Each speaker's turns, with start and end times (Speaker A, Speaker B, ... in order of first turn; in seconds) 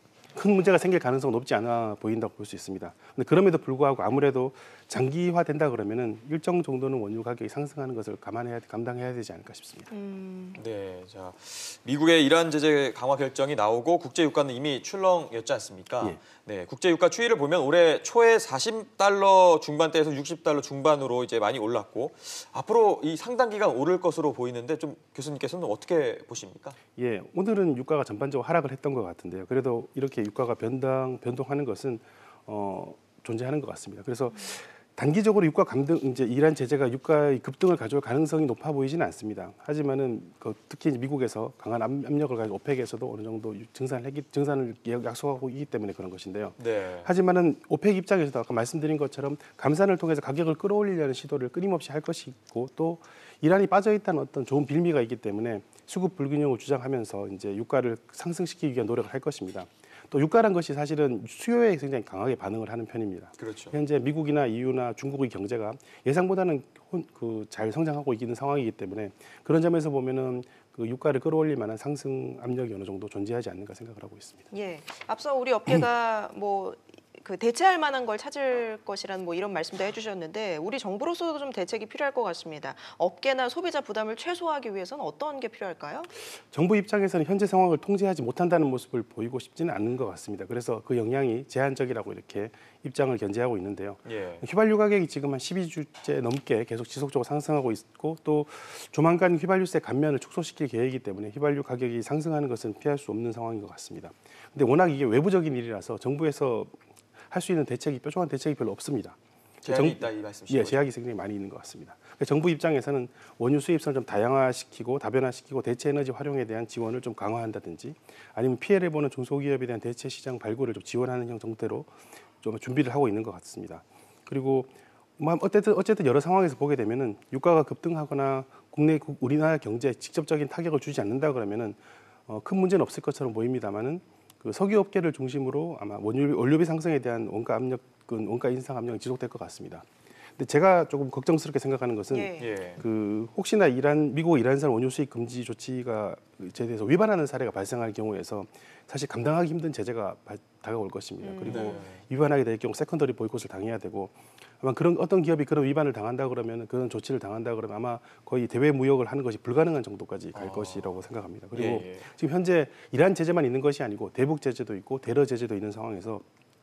Speaker A: 0.3-9.9, 27.0-74.5, 86.4-106.7, 107.3-121.9, 122.4-166.2
Speaker B: 9.9-10.6, 74.5-86.1, 142.1-142.5, 151.2-151.8
Speaker C: 10.6-26.8, 46.6-47.1, 63.4-63.8, 94.1-94.4, 109.6-110.8, 142.4-142.8, 151.4-152.0, 160.3-162.1